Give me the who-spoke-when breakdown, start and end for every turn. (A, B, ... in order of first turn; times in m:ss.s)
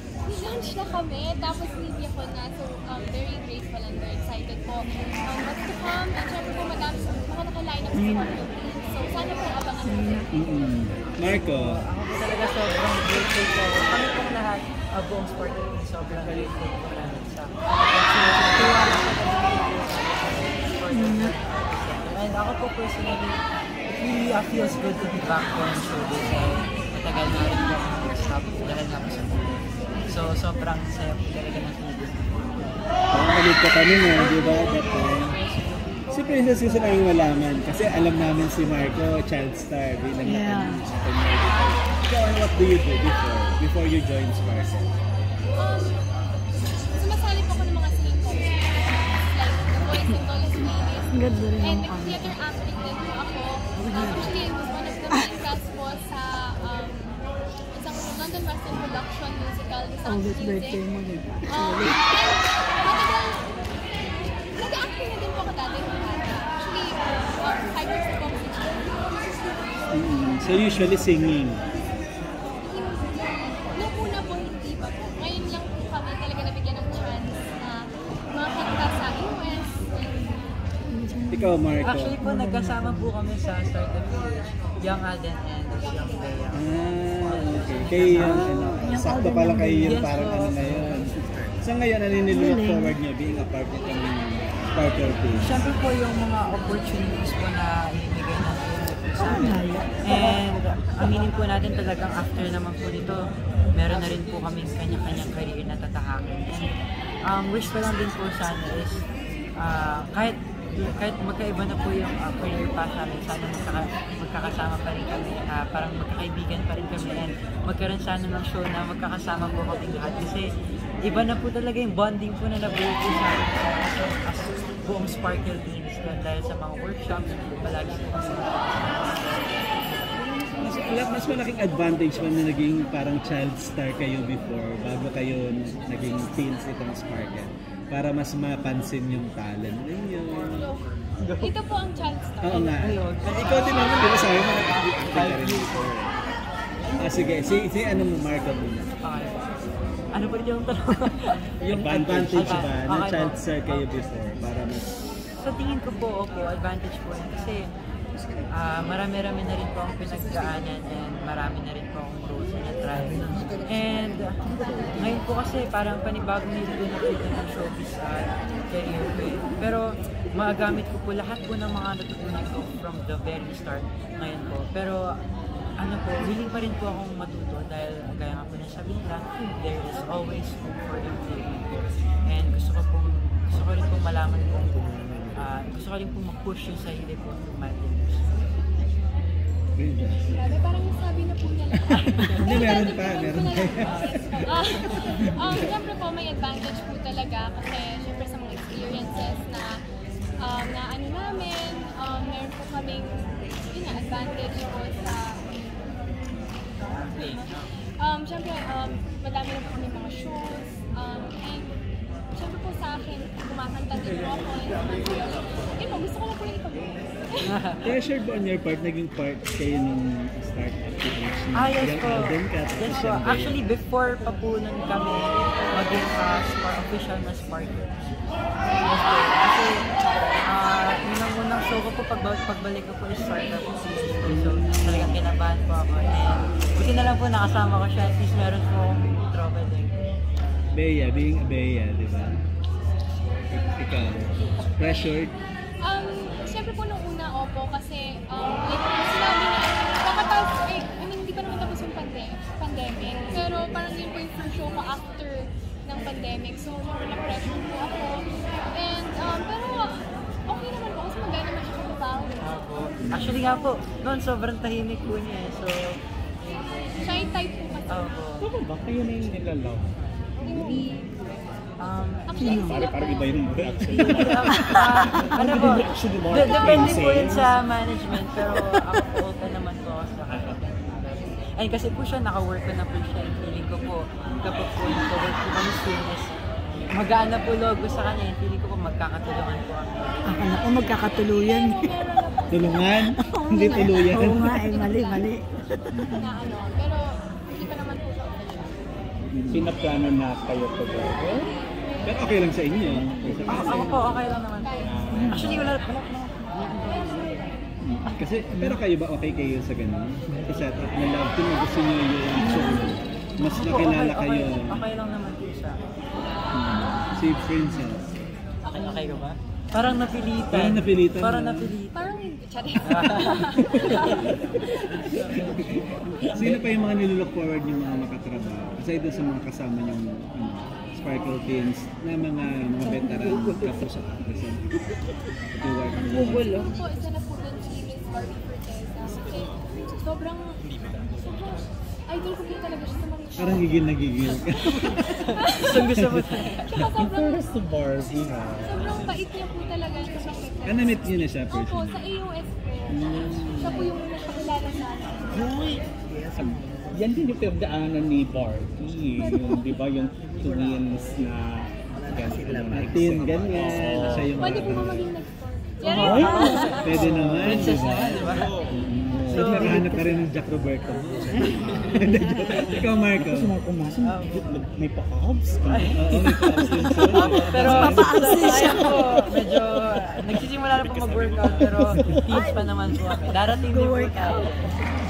0:00.2-0:10.2 A
0:07.9-0:08.4 B
0:09.8-0:10.2 B
0:10.3-0:11.8 C
0:11.4-0:23.4 D
0:20.9-0:21.3 B
0:23.9-0:32.6 D
0:33.1-0:35.4 C
0:34.1-0:35.6 A
0:36.1-0:44.9 C
0:36.2-0:37.1 A
0:40.2-0:40.8 B
0:45.6-0:46.0 A
0:47.0-0:57.2 A
0:51.1-0:52.3 B
0:53.8-0:54.3 B
0:57.7-1:00.8 A
1:00.0-1:02.1 B
1:01.5-1:03.4 A
1:04.6-1:09.8 A
1:09.9-1:11.6 C
1:12.6-1:20.4 A
1:20.9-1:21.6 B
1:21.3-1:22.1 C
1:21.8-1:26.6 D
1:22.2-1:23.1 B
1:26.5-1:31.1 C
1:27.4-1:28.5 D
1:28.2-1:30.6 B
1:31.6-1:35.5 C
1:32.3-1:33.0 B
1:35.4-1:43.2 D
1:39.2-1:40.2 B
1:43.7-1:46.7 D
1:47.3-1:49.0 D
1:49.6-2:00.5 D
2:01.0-2:09.2 D
2:10.5-2:20.7 C
2:20.6-2:20.8 A
2:21.4-2:22.8 A
2:22.4-2:26.1 C
2:22.8-2:25.7 D
2:27.0-2:28.9 C
2:29.0-2:29.5 D
2:30.1-2:31.3 D
2:31.6-2:34.9 C
2:31.7-2:32.6 E
2:32.3-2:33.4 D
2:35.3-2:37.7 D
2:38.5-2:55.1 D
2:55.8-3:08.3 D
3:04.8-3:05.4 C
3:09.8-3:10.5 C
3:10.2-3:19.8 A
3:12.3-3:14.4 C
3:20.4-3:25.4 A
3:28.0-3:31.8 A
3:32.3-3:37.5 A
3:37.4-3:37.8 D
3:37.8-3:43.6 C
3:41.5-3:47.9 D
3:48.8-3:49.8 D
3:50.5-3:59.9 D
3:54.3-3:55.1 C
4:00.7-4:02.4 C
4:03.5-4:05.3 C
4:05.8-4:22.4 A
4:22.4-4:27.3 D
4:23.0-4:23.4 C
4:27.0-4:28.1 A
4:27.9-4:28.5 D
4:28.4-4:29.9 E
4:30.4-4:31.1 A
4:30.4-4:30.9 E
4:31.8-4:32.6 D
4:32.3-4:34.2 A
4:32.4-4:37.6 E
4:33.9-4:46.3 D
4:34.5-4:35.0 B
4:36.4-4:37.2 A
4:46.9-4:50.2 D
4:50.2-4:51.9 B
4:51.3-4:55.3 A
4:52.5-4:54.6 C
4:53.2-4:55.5 B
4:56.0-4:56.3 C
4:56.1-4:58.8 A
4:59.3-4:59.7 C
4:59.5-5:01.5 E
5:01.5-5:02.6 A
5:02.0-5:04.1 C
5:03.5-5:06.1 D
5:03.6-5:03.9 A
5:04.6-5:05.5 A
5:04.8-5:05.7 E
5:06.6-5:07.5 A
5:07.8-5:14.8 C
5:13.6-5:15.8 D
5:16.5-5:18.0 C
5:18.6-5:19.1 A
5:18.7-5:22.0 D
5:20.5-5:21.7 C
5:21.9-5:25.4 A
5:22.8-5:23.8 D
5:24.0-5:24.3 C
5:26.3-5:34.6 C
5:32.9-5:33.7 B
5:35.5-5:36.6 C
5:36.1-5:45.8 A
5:36.1-5:36.7 B
5:43.4-5:45.2 C
5:45.5-5:46.8 D
5:45.9-5:46.2 C
5:46.7-5:47.5 A
5:46.8-5:49.0 E
5:48.1-5:55.8 A
5:50.6-5:52.1 C
5:53.0-5:53.7 C
5:53.4-5:53.8 E
5:56.4-6:04.7 E
5:59.2-5:59.6 A
6:02.7-6:05.1 C
6:04.0-6:04.3 D
6:04.4-6:06.8 A
6:05.8-6:08.5 D
6:06.0-6:07.7 E
6:06.8-6:13.5 C
6:09.1-6:09.9 E
6:09.3-6:09.8 D
6:13.2-6:17.0 E
6:14.0-6:14.6 D
6:15.7-6:24.7 D
6:16.0-6:18.5 C
6:17.4-6:19.2 B
6:21.8-6:22.4 E
6:23.5-6:24.5 B